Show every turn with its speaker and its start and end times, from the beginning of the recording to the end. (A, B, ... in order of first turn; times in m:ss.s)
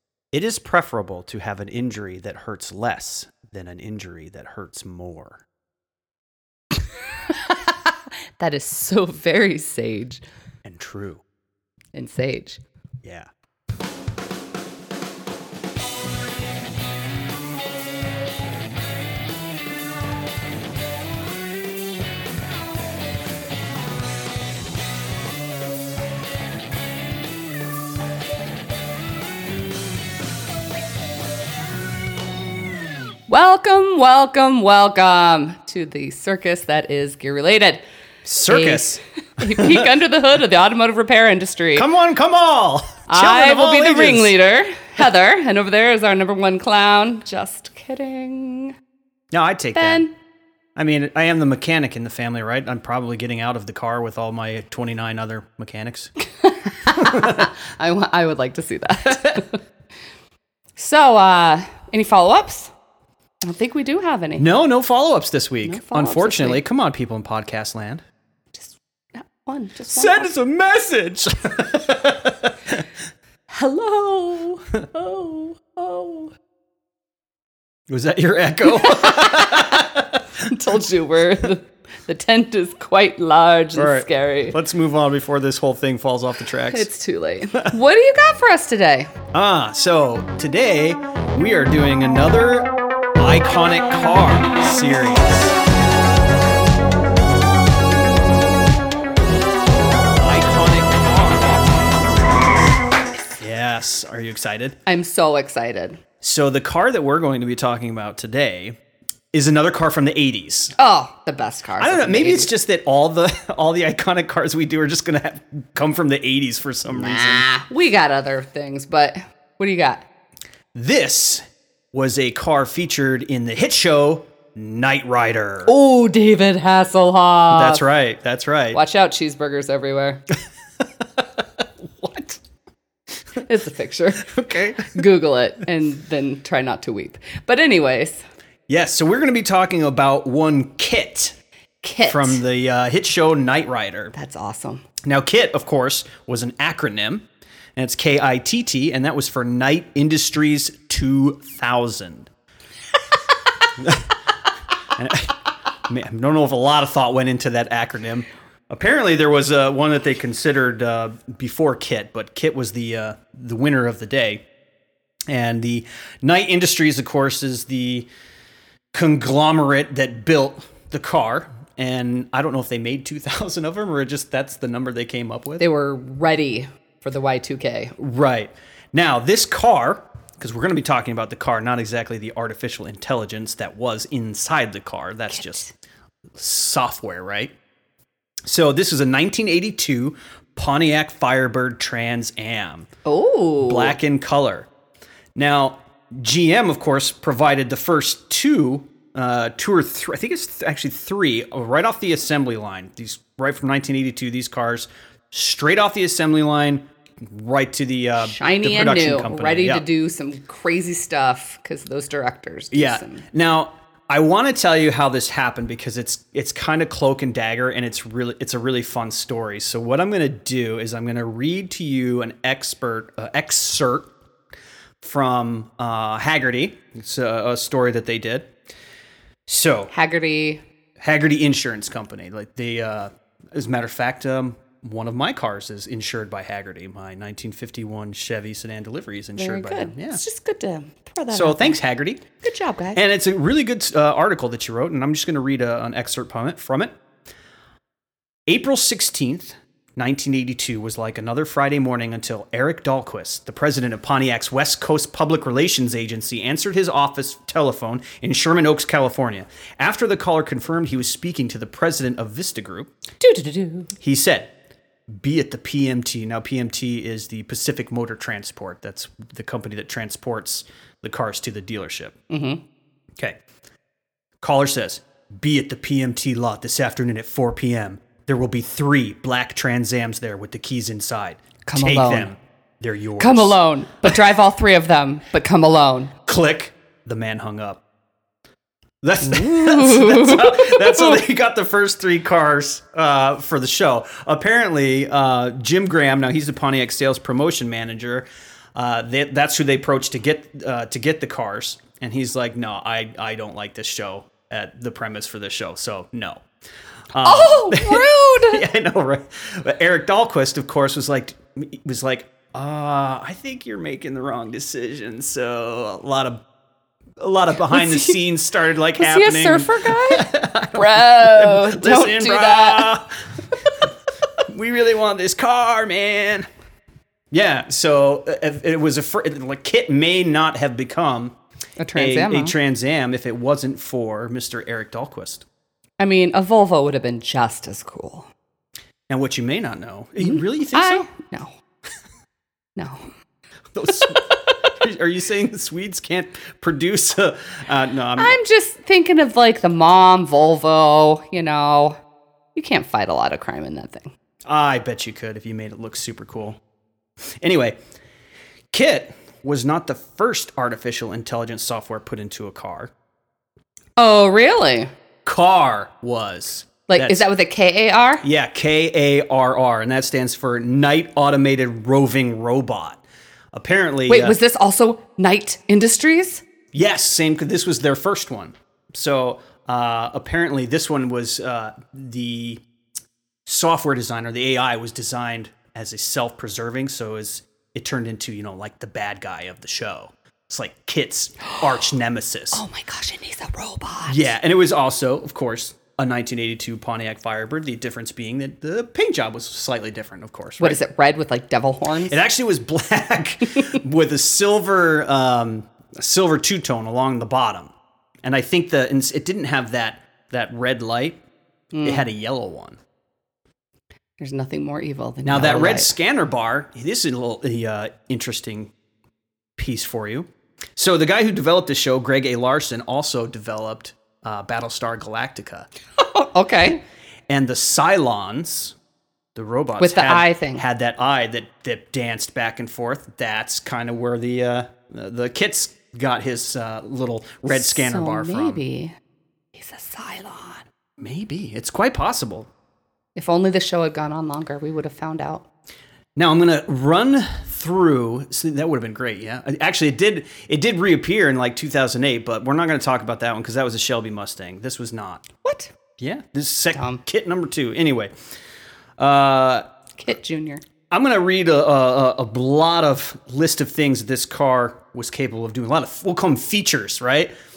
0:00.3-0:05.4 A
0:07.3-0:10.2 B
0:10.6-0:11.2 A
0:11.9-0:12.6 B
0:13.0-0:13.3 A
0:33.3-0:37.8 B
0:38.2-0:39.0 A
0:38.4-0:41.8 B
0:39.5-0:39.9 A
0:41.7-0:44.3 A
0:43.1-0:48.7 B
0:49.3-0:50.1 A
0:49.7-0:50.1 B
0:50.8-0:56.1 A
0:56.4-0:59.6 B
0:57.1-0:57.4 A
1:00.8-1:02.7 B
1:03.4-1:04.4 B
1:04.4-1:08.0 A
1:05.6-1:06.6 B
1:08.5-1:10.3 B
1:09.9-1:12.5 A
1:13.5-1:16.3 B
1:17.9-1:20.2 A
1:18.6-1:19.8 B
1:20.4-1:24.6 B
1:23.7-1:26.9 A
1:26.7-1:29.1 B
1:29.3-1:35.6 A
1:40.2-1:42.2 A
1:43.4-1:44.8 A
1:44.8-1:46.0 B
1:46.2-1:48.8 A
1:49.3-1:50.7 A
1:50.8-1:52.5 B
1:51.8-1:57.4 A
1:56.9-2:00.0 B
2:00.7-2:01.4 A
2:01.9-2:05.7 A
2:05.6-2:07.8 B
2:07.5-2:08.8 A
2:08.7-2:10.2 B
2:12.0-2:12.4 A
2:13.4-2:18.2 B
2:14.3-2:14.9 A
2:18.7-2:21.4 A
2:21.8-2:22.4 B
2:22.1-2:24.1 A
2:24.1-2:24.8 B
2:25.0-2:32.3 A
2:33.8-2:34.1 A
2:35.0-2:44.4 A
2:45.3-2:48.1 A
2:48.9-2:55.7 A
2:55.6-2:57.9 B
2:58.0-3:05.6 A
3:05.3-3:05.7 B
3:06.4-3:07.5 A
3:08.5-3:12.9 A
3:13.0-3:14.0 B
3:13.6-3:14.7 A
3:15.3-3:29.8 A
3:28.2-3:33.2 B
3:32.7-3:44.1 A
3:45.0-3:48.5 A
3:49.5-3:49.9 A
3:49.9-3:50.6 B
3:51.0-4:00.2 A
3:59.4-4:01.8 B
4:01.3-4:02.2 A
4:02.4-4:03.0 B
4:02.9-4:06.9 A
4:08.5-4:22.9 A
4:23.2-4:23.9 B
4:24.0-4:24.5 A
4:25.1-4:32.1 A
4:32.3-4:32.6 B
4:34.4-4:44.0 A
4:41.6-4:42.3 B
4:43.2-4:46.1 B
4:46.2-4:47.8 A
4:49.0-5:06.4 A
4:49.2-4:51.2 B
5:07.1-5:16.4 A
5:07.2-5:08.6 B
5:17.2-5:23.3 A
5:17.7-5:18.2 B
5:19.0-5:22.9 B
5:24.5-5:26.5 A
5:27.3-5:31.4 A
5:31.8-5:32.5 B
5:32.0-5:35.4 A
5:36.0-5:38.3 B
5:39.1-5:41.1 A
5:40.2-5:41.5 B
5:42.8-5:43.1 B
5:43.7-5:48.4 A
5:48.2-5:52.0 B
5:52.5-5:54.1 B
5:54.4-5:56.6 A
5:57.4-5:57.8 A
5:58.7-6:02.9 A
6:04.0-6:04.9 B
6:05.2-6:07.3 A
6:06.9-6:08.2 B
6:08.2-6:14.4 A
6:14.1-6:16.4 B
6:16.7-6:22.6 A
6:23.4-6:32.6 A
6:32.5-6:34.3 B
6:34.1-6:40.8 A
6:40.6-6:42.2 B
6:42.1-6:47.7 A
6:48.2-6:51.2 A
6:51.7-6:52.1 B
6:51.8-6:52.8 A
6:54.2-6:55.9 B
6:55.2-6:58.7 A
6:59.6-7:05.7 A
7:06.0-7:06.8 B
7:07.3-7:08.8 A
7:09.3-7:18.6 A
7:09.8-7:10.6 B
7:17.5-7:18.9 B
7:19.5-7:20.6 B
7:21.0-7:22.5 A
7:23.2-7:25.4 B
7:26.2-7:35.2 A
7:35.4-7:35.7 B
7:36.0-7:38.1 A
7:36.7-7:37.0 B
7:39.0-7:39.6 A
7:40.0-7:40.6 B
7:40.9-7:47.3 A